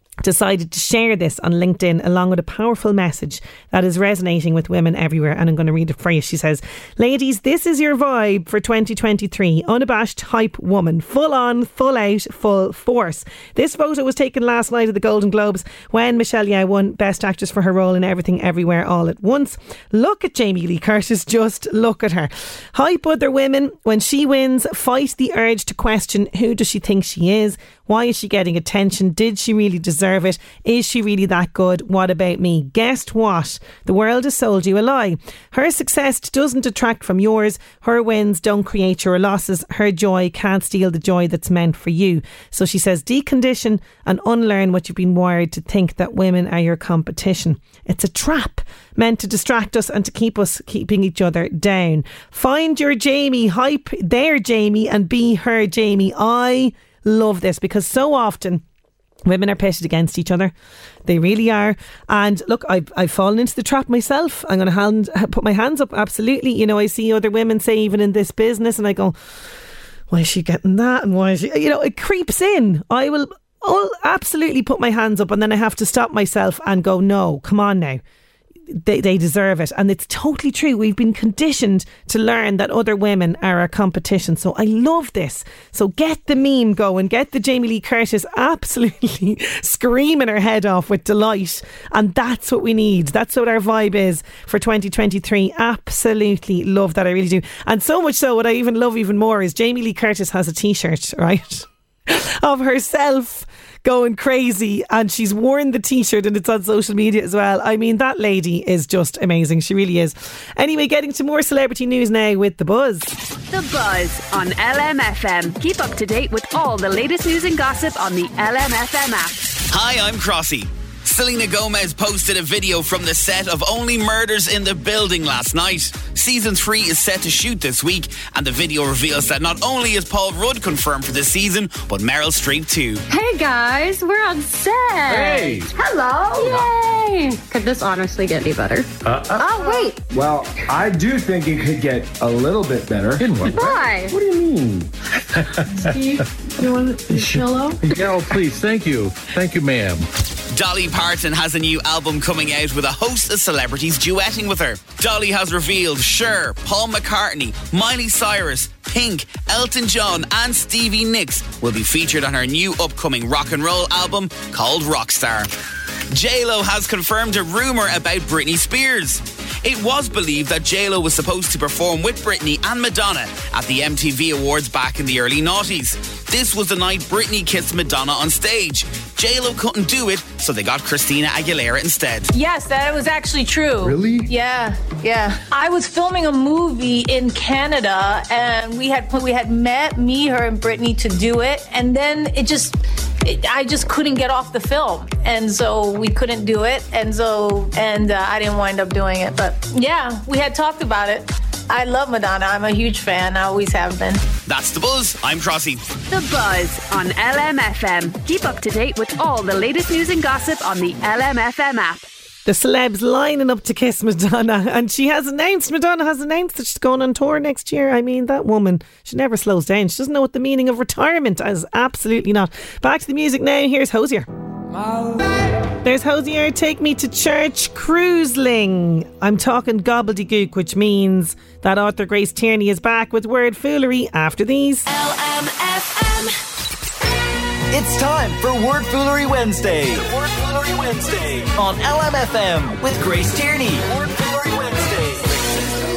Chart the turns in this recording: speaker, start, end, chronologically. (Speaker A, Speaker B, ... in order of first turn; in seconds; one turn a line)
Speaker A: 0.2-58.6
Speaker A: 59.3-60.5
Speaker A: 61.1-69.2
Speaker A: 70.1-78.0
Speaker A: 78.7-113.1
Speaker B: 113.5-119.5
Speaker C: 119.7-133.0
Speaker D: 133.1-140.0
Speaker E: 135.1-135.7
Speaker E: 139.1-139.4
Speaker F: 140.1-144.9
Speaker E: 143.2-143.7
Speaker D: 143.4-144.2
Speaker D: 145.8-147.9
Speaker E: 147.8-150.1
Speaker C: 150.5-165.5
Speaker C: 166.1-182.3
Speaker G: 182.3-204.2
Speaker F: 183.8-184.3
Speaker C: 204.5-205.8
Speaker B: 206.1-212.1
Speaker A: 212.5-224.3
Speaker A: 225.8-234.9
Speaker H: 237.7-245.6